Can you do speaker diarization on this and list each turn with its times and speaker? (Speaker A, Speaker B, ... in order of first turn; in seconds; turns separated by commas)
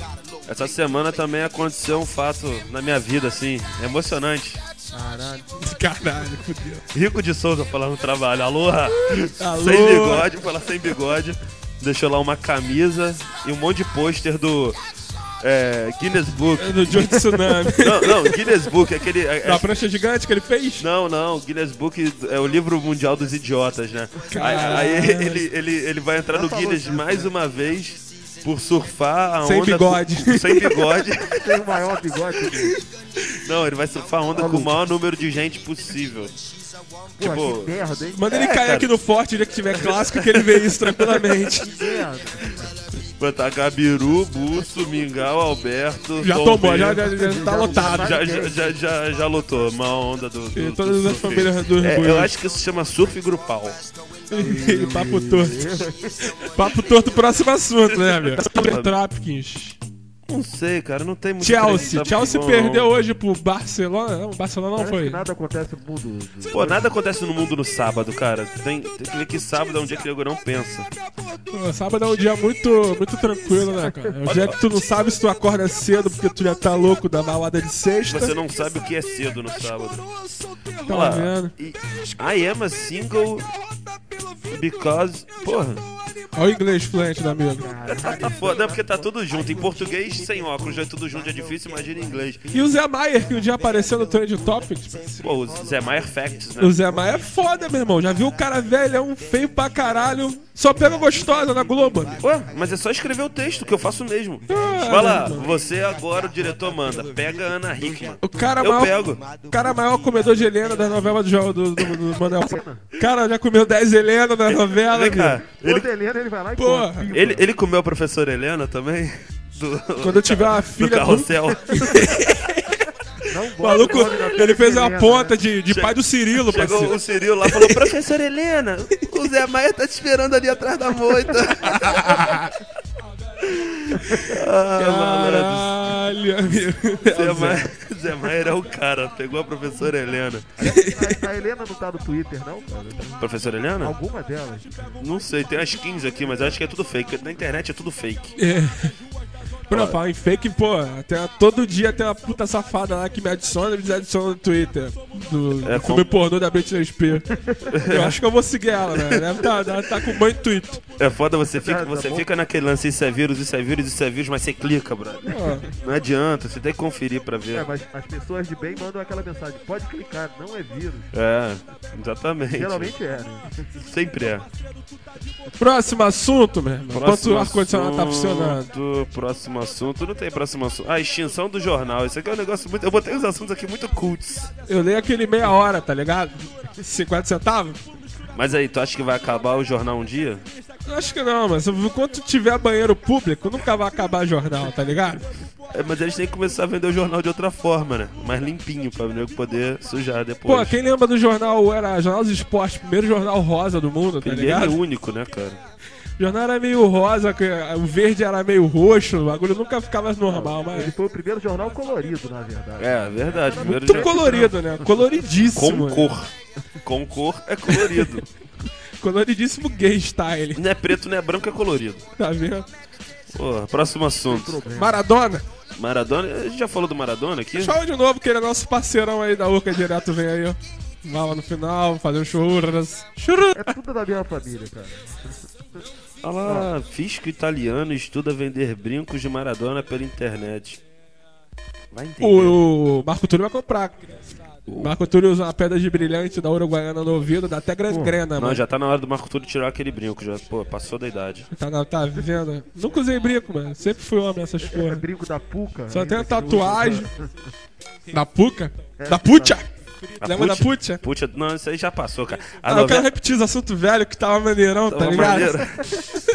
Speaker A: 0.5-4.6, Speaker B: 4.9-5.6, Speaker C: 5.6-6.8, Speaker A: 6.9-14.8, Speaker C: 9.4-10.3, Speaker A: 15.4-17.1, Speaker C: 16.6-18.4, Speaker A: 17.8-19.8, Speaker C: 19.4-20.9, Speaker A: 20.8-31.6, Speaker C: 24.3-25.4, Speaker B: 26.3-27.3, Speaker C: 29.4-30.9, Speaker B: 31.3-32.8, Speaker A: 33.4-36.4, Speaker B: 34.3-34.7, Speaker B: 37.2-38.3, Speaker A: 37.2-37.7, Speaker C: 38.1-41.8, Speaker A: 38.3-38.9, Speaker A: 39.8-41.5, Speaker B: 41.6-42.7, Speaker A: 43.2-47.1, Speaker C: 46.2-48.4, Speaker B: 47.0-48.8, Speaker A: 47.7-53.8, Speaker C: 50.5-52.3, Speaker C: 54.3-55.6, Speaker B: 54.4-56.3, Speaker C: 56.5-59.8, Speaker A: 58.2-58.9, Speaker A: 60.3-62.9, Speaker C: 61.4-65.2, Speaker B: 64.8-66.8, Speaker A: 66.5-70.9, Speaker C: 71.5-78.3, Speaker A: 74.3-74.6, Speaker A: 78.1-80.1, Speaker C: 80.8-81.5, Speaker A: 80.9-83.5, Speaker A: 84.5-85.8, Speaker C: 86.3-87.7, Speaker B: 87.6-90.0, Speaker A: 87.9-92.5, Speaker C: 92.5-95.2, Speaker A: 95.2-96.8, Speaker C: 96.6-102.2, Speaker A: 102.2-109.2, Speaker C: 104.5-105.5, Speaker C: 108.2-115.4, Speaker B: 112.4-112.8, Speaker A: 114.5-115.9, Speaker B: 115.6-117.5, Speaker C: 116.6-117.1, Speaker A: 117.1-122.4, Speaker C: 120.0-122.8, Speaker B: 123.3-125.4, Speaker C: 123.6-126.9, Speaker A: 125.7-132.2, Speaker C: 127.5-127.8, Speaker C: 131.6-132.6, Speaker A: 133.4-135.7, Speaker C: 134.0-137.7, Speaker A: 137.1-140.5, Speaker B: 140.6-143.2, Speaker C: 140.6-141.2, Speaker A: 143.2-143.9, Speaker B: 143.8-144.8, Speaker A: 145.0-148.3, Speaker C: 148.4-148.9, Speaker C: 149.7-157.3, Speaker A: 149.7-150.0, Speaker A: 155.6-156.1, Speaker B: 157.3-157.7, Speaker A: 157.7-158.2, Speaker C: 157.8-160.8, Speaker A: 158.9-159.7, Speaker A: 161.0-167.7, Speaker B: 161.5-162.3, Speaker C: 165.3-165.7, Speaker B: 167.5-171.1, Speaker A: 171.1-172.9, Speaker B: 172.5-173.7, Speaker A: 173.8-174.5, Speaker C: 175.6-178.7, Speaker A: 176.9-184.5, Speaker C: 184.7-187.8, Speaker A: 188.3-190.4, Speaker C: 190.8-195.3, Speaker A: 195.7-200.8, Speaker C: 200.5-204.8, Speaker A: 204.2-205.6, Speaker C: 206.2-210.9, Speaker B: 210.3-214.9, Speaker A: 212.8-214.3, Speaker C: 213.6-216.1, Speaker A: 215.5-216.3, Speaker A: 216.8-218.2, Speaker C: 219.0-220.6, Speaker A: 220.6-222.1, Speaker C: 222.2-222.7, Speaker A: 223.3-224.6, Speaker B: 224.3-225.0, Speaker C: 224.7-225.4, Speaker A: 225.8-227.8, Speaker C: 227.6-233.8, Speaker B: 233.6-235.3, Speaker A: 236.2-240.8, Speaker A: 241.9-242.6, Speaker C: 242.2-244.2, Speaker A: 244.7-244.9, Speaker C: 244.8-248.6, Speaker B: 247.9-248.2, Speaker A: 248.4-251.5, Speaker C: 251.5-255.0, Speaker B: 254.7-257.3, Speaker C: 255.9-257.1, Speaker C: 258.1-261.0, Speaker B: 259.0-259.6, Speaker A: 260.2-263.1, Speaker C: 262.7-265.5, Speaker A: 264.9-265.8, Speaker B: 265.2-266.0